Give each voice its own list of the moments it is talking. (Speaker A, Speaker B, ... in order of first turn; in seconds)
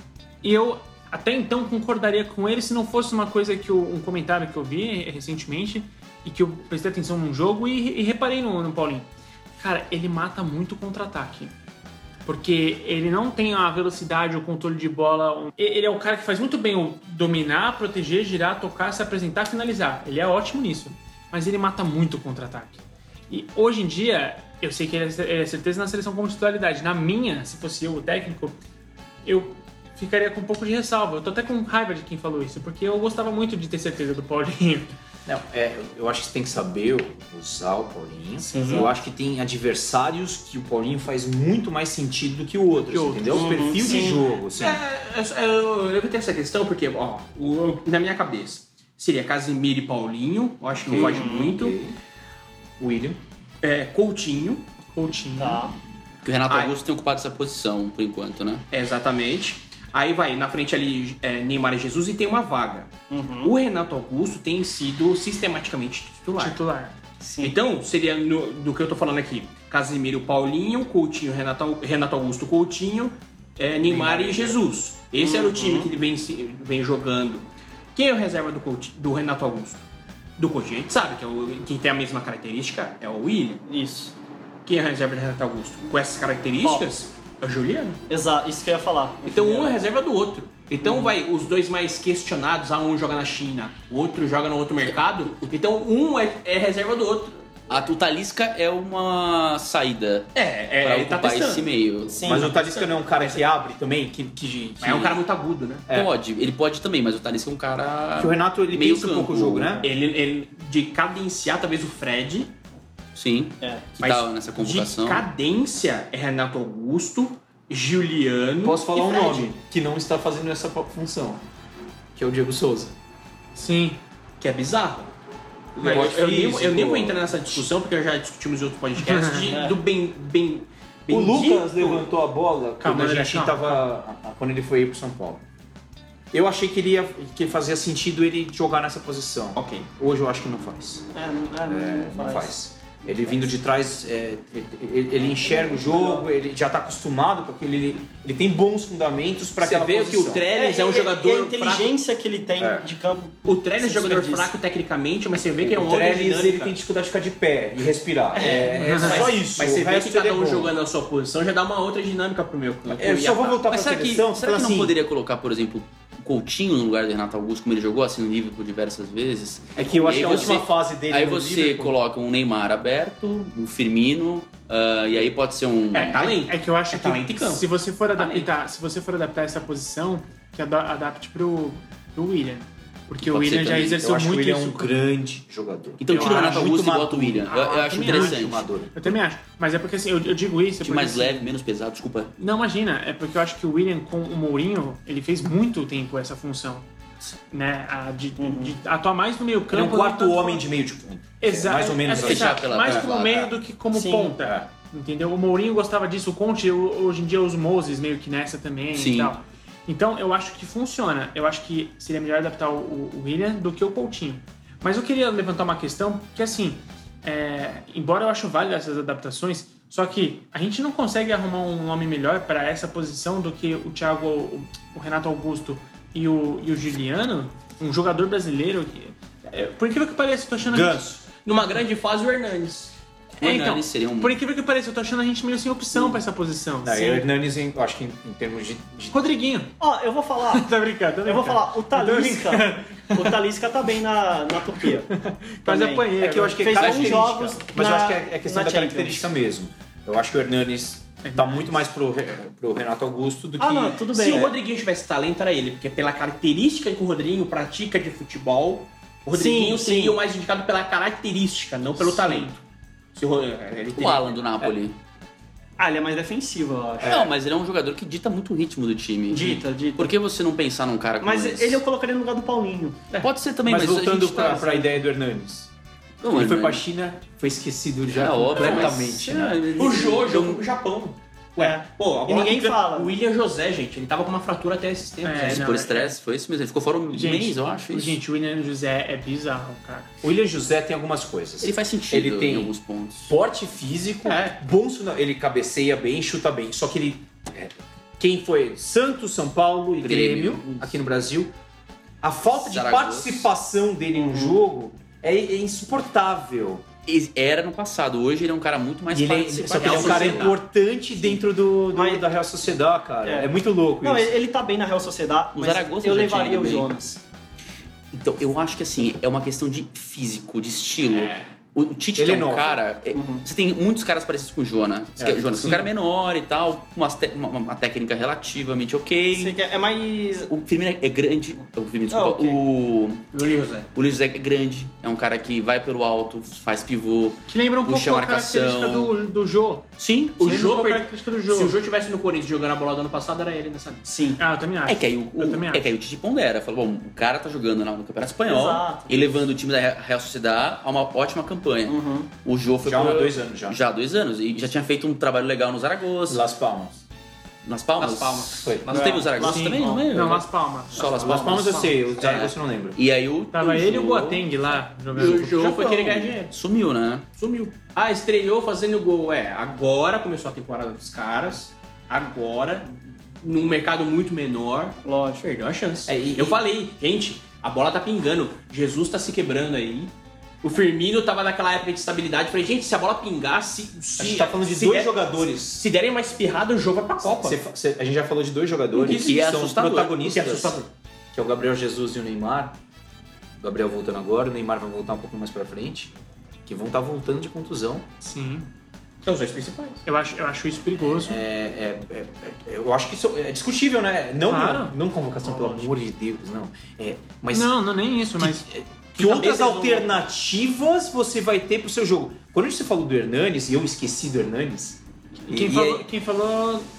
Speaker A: 0.4-11.5, 12.2-28.6, 29.2-34.9, 38.4-38.9, 42.8-43.6, 54.9-55.6, 66.4-66.9, 123.5-124.0, 125.8-126.1, 129.0-129.6, 132.8-133.8, 158.8-159.2, 176.1-184.9, 186.1-186.8, 187.4-191.4, 192.4-196.8, 197.5-200.6, 201.4-231.0, 233.4-237.3, 239.1-239.7, 240.5-243.4, 245.1-246.8, 251.2-251.8, 262.0-262.5, 285.2-286.1, 287.1-290.1, 309.8-310.3, 337.5-339.9, 340.4-341.7, 344.4-345.9, 359.5-361.9, 363.5-365.4, 398.2-398.7, 400.1-401.4, 404.4-404.9, 405.5-405.8, 407.5-408.7, 415.4-416.9
Speaker B: 35.2-44.8, 50.9-52.0, 52.8-53.2, 73.9-74.5, 102.2-105.2, 108.2-109.9, 118.6-121.4, 122.1-122.9, 125.8-127.6, 131.1-135.4, 136.3-141.1, 141.7-150.4, 152.6-152.9, 155.6-160.7, 162.9-164.9, 169.8-171.9, 184.0-189.1, 199.7-203.5, 204.4-204.7, 230.6-231.2, 236.8-239.2, 246.2-254.5, 267.0-267.3, 273.6-275.7, 276.2-279.6, 290.2-292.7, 293.3-301.5, 302.2-306.8, 309.1-314.4, 322.1-322.8, 325.2-325.9, 352.8-353.8, 356.3-357.0, 358.6-359.0, 361.2-363.0, 376.1-376.6, 384.2-385.8, 387.2-390.8, 391.3-392.8, 393.6-396.1, 396.6-398.0, 401.0-407.8, 408.4-416.1
Speaker C: 43.3-44.2, 50.9-51.5, 55.4-55.8, 63.1-63.5, 67.2-67.6, 75.2-75.9, 83.7-84.1, 88.1-89.8, 90.8-91.1, 102.1-102.5, 113.6-113.9, 118.9-119.5, 129.5-129.8, 141.1-142.5, 143.1-143.3, 145.4-146.2, 150.5-154.5, 158.3-159.3, 198.4-198.8, 203.9-204.4, 239.8-240.7, 241.2-245.1, 245.6-249.3, 253.6-254.5, 259.3-260.2, 265.8-267.2, 269.3-270.1, 271.2-273.1, 281.6-283.1, 304.1-304.6, 311.9-312.2, 313.2-313.5, 314.0-317.2, 323.1-323.4, 329.3-330.5, 332.1-332.6, 344.0-344.4, 348.4-349.4, 351.9-352.3, 358.9-360.2, 361.2-361.8, 375.0-375.5
Speaker D: 43.8-51.8, 53.6-54.6, 56.5-56.8, 58.7-62.9, 63.4-66.6, 67.4-79.8, 80.4-83.6, 84.7-88.0, 89.2-97.4, 100.3-101.7, 102.2-103.4, 104.8-105.9, 109.8-112.5, 114.0-118.8, 124.4-125.1, 125.8-132.1, 139.6-139.9, 149.6-151.9, 153.4-156.7, 158.4-163.5, 170.0-170.6, 175.9-178.5, 231.3-232.9, 254.0-262.6, 263.1-264.7, 278.6-279.0, 279.7-285.6, 294.3-294.5, 309.8-310.5, 321.1-321.4, 333.3-333.9, 340.4-344.1, 358.0-359.6, 365.1-366.5, 367.3-380.1, 380.6-387.6, 390.2-390.9, 399.2-400.0, 409.2-410.0
Speaker E: 56.2-58.6, 97.7-102.4, 105.9-109.8, 113.1-115.2, 163.5-176.4, 183.2-184.0, 186.0-188.7, 190.8-192.3, 202.1-203.5, 208.9-209.3, 233.4-234.4, 246.8-247.2, 264.0-264.9, 267.0-271.8, 273.2-274.7, 276.2-276.8, 278.1-280.6, 285.3-288.2, 291.6-293.3, 300.0-301.0, 302.5-303.5, 307.1-310.6, 315.5-316.9, 318.1-329.6, 330.5-333.3, 333.9-339.1, 340.0-340.6, 344.9-356.4, 357.6-367.2, 388.9-390.7